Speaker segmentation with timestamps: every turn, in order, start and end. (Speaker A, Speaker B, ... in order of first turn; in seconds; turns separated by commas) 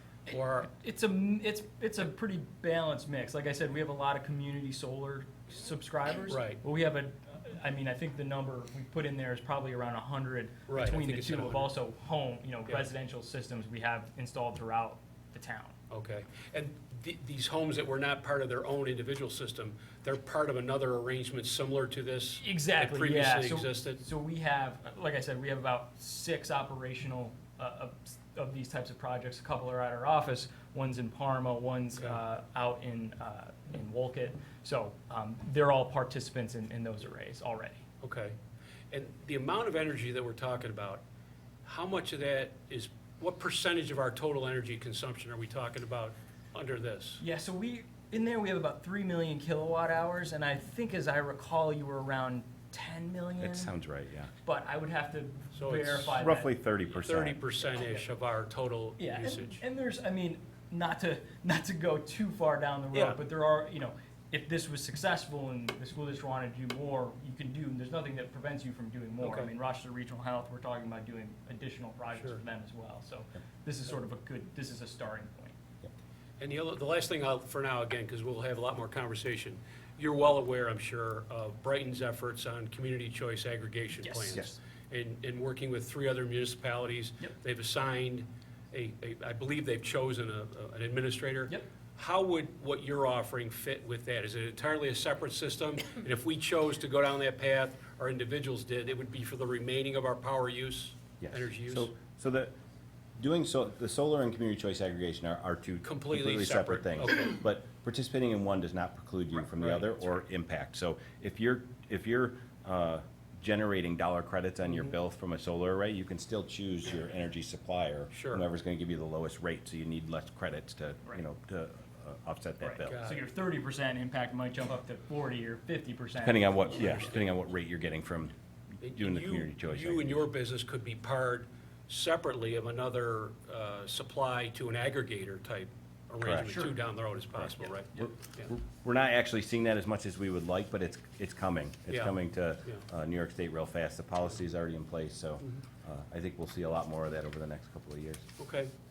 Speaker A: 0.3-0.7, Speaker B: 0.7-15.7, Speaker A: 6.3-6.6, Speaker A: 10.7-11.7, Speaker A: 15.9-24.0, Speaker B: 22.4-37.8, Speaker A: 38.0-38.4, Speaker A: 38.9-41.0, Speaker A: 41.6-47.2, Speaker B: 47.2-53.7, Speaker C: 53.4-54.3, Speaker B: 54.4-56.5, Speaker A: 55.5-56.2, Speaker C: 56.1-57.4, Speaker A: 56.9-59.6, Speaker B: 57.7-58.0, Speaker B: 59.0-75.5, Speaker A: 62.9-63.2, Speaker A: 69.2-69.5, Speaker A: 76.4-101.9, Speaker B: 84.0-84.5, Speaker C: 101.2-102.5, Speaker C: 103.2-123.0, Speaker A: 105.8-107.4, Speaker A: 109.5-110.2, Speaker A: 118.1-118.4, Speaker B: 122.6-126.8, Speaker A: 122.8-123.2, Speaker C: 126.2-130.3, Speaker A: 126.8-127.2, Speaker A: 128.8-138.4, Speaker C: 136.2-136.6, Speaker B: 136.4-136.7, Speaker C: 137.9-148.2, Speaker A: 141.9-142.2, Speaker A: 148.4-148.7